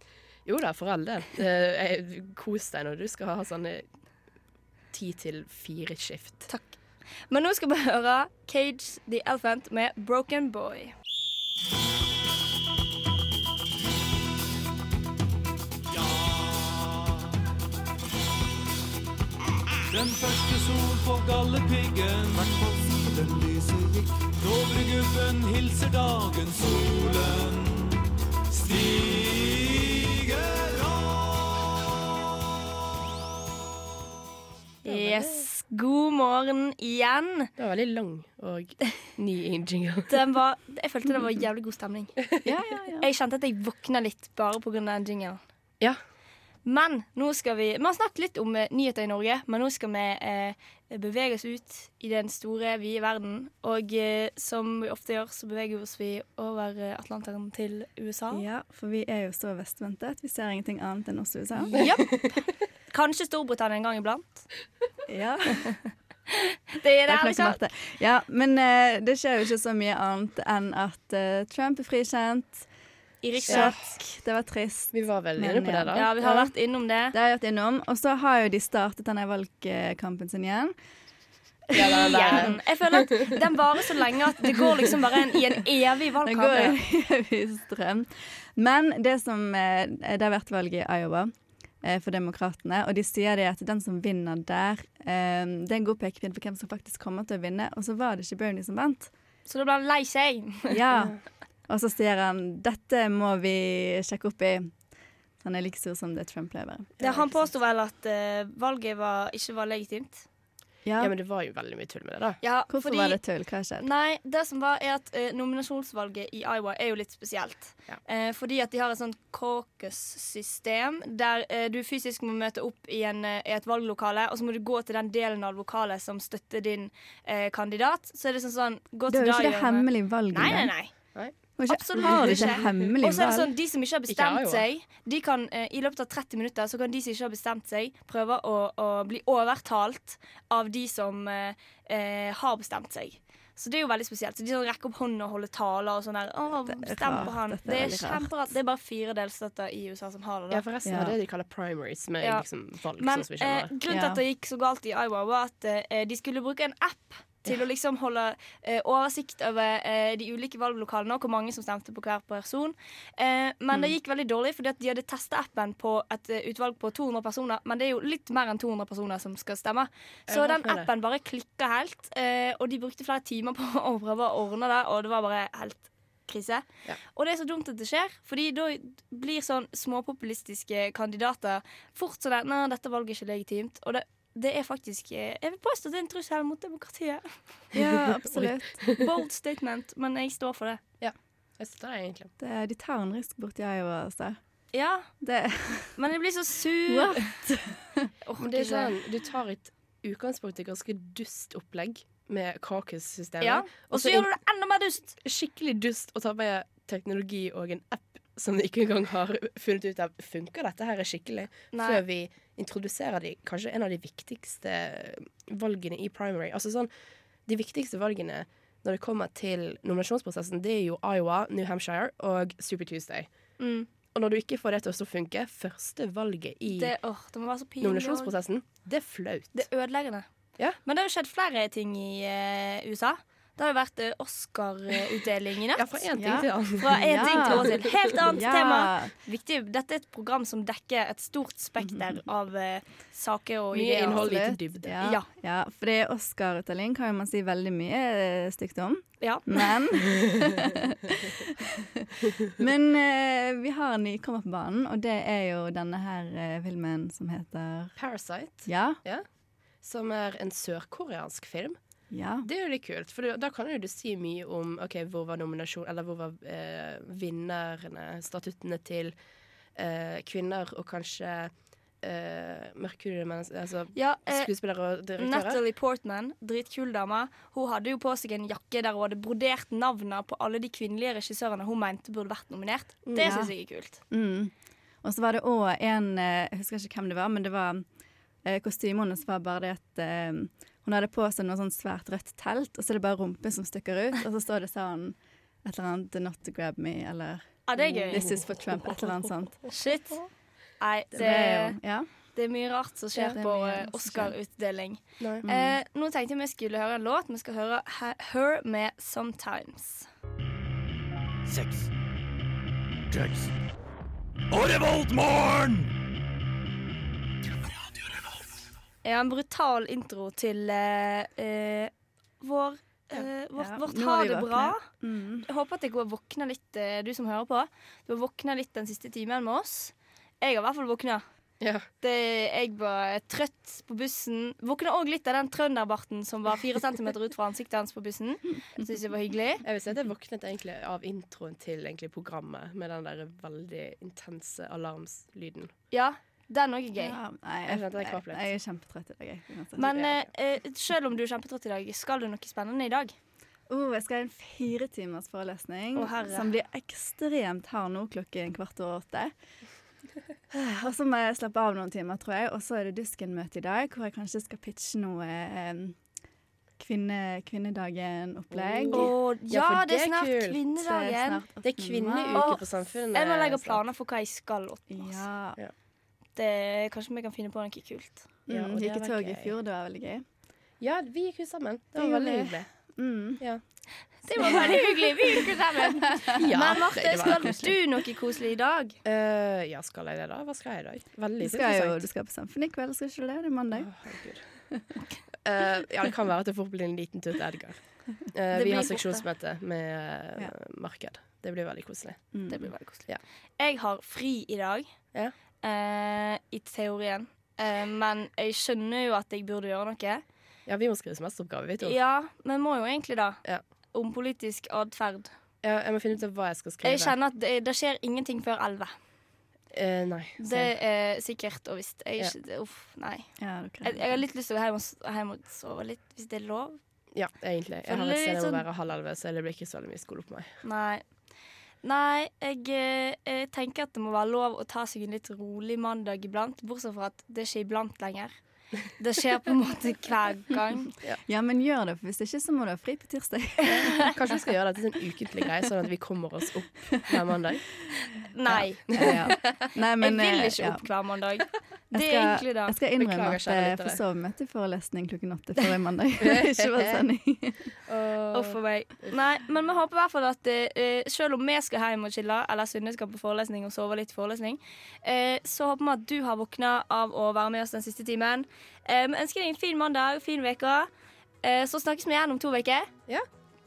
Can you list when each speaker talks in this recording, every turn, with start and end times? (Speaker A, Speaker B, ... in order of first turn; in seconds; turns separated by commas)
Speaker A: 0.5-3.9, Speaker A: 4.9-6.5, Speaker B: 6.5-10.9, Speaker C: 15.9-17.3, Speaker C: 19.9-31.6, Speaker B: 34.8-37.5, Speaker A: 34.9-35.4, Speaker A: 37.6-40.1, Speaker B: 40.1-42.3, Speaker D: 42.4-43.1, Speaker B: 43.0-45.4, Speaker B: 46.6-58.4, Speaker D: 58.3-61.8, Speaker B: 61.6-62.3, Speaker B: 62.9-64.5, Speaker D: 65.1-65.7, Speaker B: 66.4-67.6, Speaker D: 67.1-72.7, Speaker B: 73.2-73.9, Speaker D: 73.5-76.1, Speaker A: 73.5-73.9, Speaker A: 74.9-76.5, Speaker B: 75.9-77.1, Speaker D: 77.1-80.7, Speaker D: 81.7-82.6, Speaker A: 81.7-83.1, Speaker B: 81.7-86.8, Speaker D: 86.2-99.1, Speaker B: 99.5-100.8, Speaker D: 100.7-104.8, Speaker D: 105.4-107.4, Speaker A: 107.0-107.4, Speaker B: 107.0-110.2, Speaker D: 110.8-111.1, Speaker A: 111.0-112.4, Speaker B: 112.4-150.6, Speaker D: 112.7-113.9, Speaker D: 129.1-130.7, Speaker A: 131.1-132.9, Speaker D: 131.6-133.5, Speaker A: 134.1-134.6, Speaker D: 146.6-148.3, Speaker A: 150.5-153.7, Speaker D: 150.8-151.1, Speaker B: 152.2-152.4, Speaker B: 153.0-187.3, Speaker D: 153.9-154.2, Speaker A: 170.3-170.9, Speaker D: 187.7-188.9, Speaker A: 187.8-188.5, Speaker B: 188.9-190.8, Speaker A: 191.0-192.3, Speaker D: 192.4-194.4, Speaker B: 194.7-195.1, Speaker D: 195.2-196.0, Speaker B: 195.9-197.4, Speaker D: 196.8-198.1, Speaker B: 198.2-198.9, Speaker A: 198.4-204.3, Speaker B: 203.4-205.1, Speaker A: 205.2-216.9, Speaker B: 211.7-212.0, Speaker A: 217.4-223.3, Speaker B: 223.6-223.9, Speaker A: 224.1-226.9, Speaker B: 226.7-228.3, Speaker A: 227.8-229.7, Speaker B: 229.5-244.3, Speaker A: 235.8-238.1, Speaker D: 236.1-239.1, Speaker D: 241.8-242.2, Speaker A: 243.7-244.9, Speaker D: 244.1-258.0, Speaker B: 249.2-249.7, Speaker A: 258.0-261.8, Speaker D: 258.6-259.0, Speaker D: 262.1-262.5, Speaker A: 262.4-269.1, Speaker A: 269.7-275.6, Speaker B: 273.9-274.5, Speaker B: 275.2-284.0, Speaker A: 283.1-283.3, Speaker D: 283.2-284.5, Speaker D: 285.0-287.9, Speaker D: 288.4-299.6, Speaker B: 297.7-298.2, Speaker A: 297.8-299.2, Speaker B: 299.7-300.3, Speaker B: 300.8-301.8, Speaker D: 301.1-302.1, Speaker B: 302.3-310.1, Speaker D: 303.3-304.4, Speaker D: 305.4-305.8, Speaker E: 311.4-311.9, Speaker E: 313.1-313.5, Speaker E: 314.5-315.9, Speaker B: 319.0-324.9, Speaker D: 323.6-325.5, Speaker B: 325.5-331.2, Speaker A: 331.6-331.9, Speaker B: 332.0-339.6, Speaker A: 339.6-345.7, Speaker B: 345.9-347.2, Speaker D: 347.0-350.0, Speaker A: 347.7-348.5, Speaker B: 349.8-353.1, Speaker A: 349.8-350.3, Speaker D: 353.7-359.3, Speaker B: 355.9-356.5, Speaker D: 360.5-366.0, Speaker D: 366.8-369.1, Speaker A: 368.5-370.6, Speaker B: 368.9-371.4, Speaker D: 370.8-372.6, Speaker A: 371.6-373.8, Speaker B: 372.3-375.2, Speaker D: 374.9-375.6, Speaker B: 376.4-378.3, Speaker D: 378.5-380.2, Speaker A: 378.5-379.5, Speaker A: 380.8-383.6, Speaker D: 381.9-383.4, Speaker A: 384.1-384.7, Speaker B: 384.2-388.9, Speaker D: 384.4-385.4, Speaker A: 386.4-387.7, Speaker A: 389.0-392.1, Speaker D: 391.4-394.6, Speaker A: 393.7-402.5, Speaker B: 398.5-399.2, Speaker D: 402.3-402.7, Speaker B: 402.5-404.9, Speaker B: 405.6-410.2, Speaker A: 410.6-412.0, Speaker B: 411.8-413.4, Speaker B: 413.9-415.3, Speaker A: 415.6-417.1, Speaker B: 416.8-418.9, Speaker A: 419.7-420.7, Speaker B: 420.4-426.8, Speaker D: 423.4-424.2, Speaker A: 427.1-430.6, Speaker B: 427.9-428.6, Speaker B: 430.6-431.3, Speaker B: 431.8-440.9, Speaker D: 441.3-444.1, Speaker A: 443.7-447.8, Speaker B: 448.3-452.8, Speaker D: 448.4-450.9, Speaker A: 448.9-449.2, Speaker D: 451.9-457.7, Speaker A: 453.0-454.0, Speaker A: 456.2-457.0, Speaker A: 457.9-459.1, Speaker B: 458.3-470.9, Speaker B: 471.4-472.9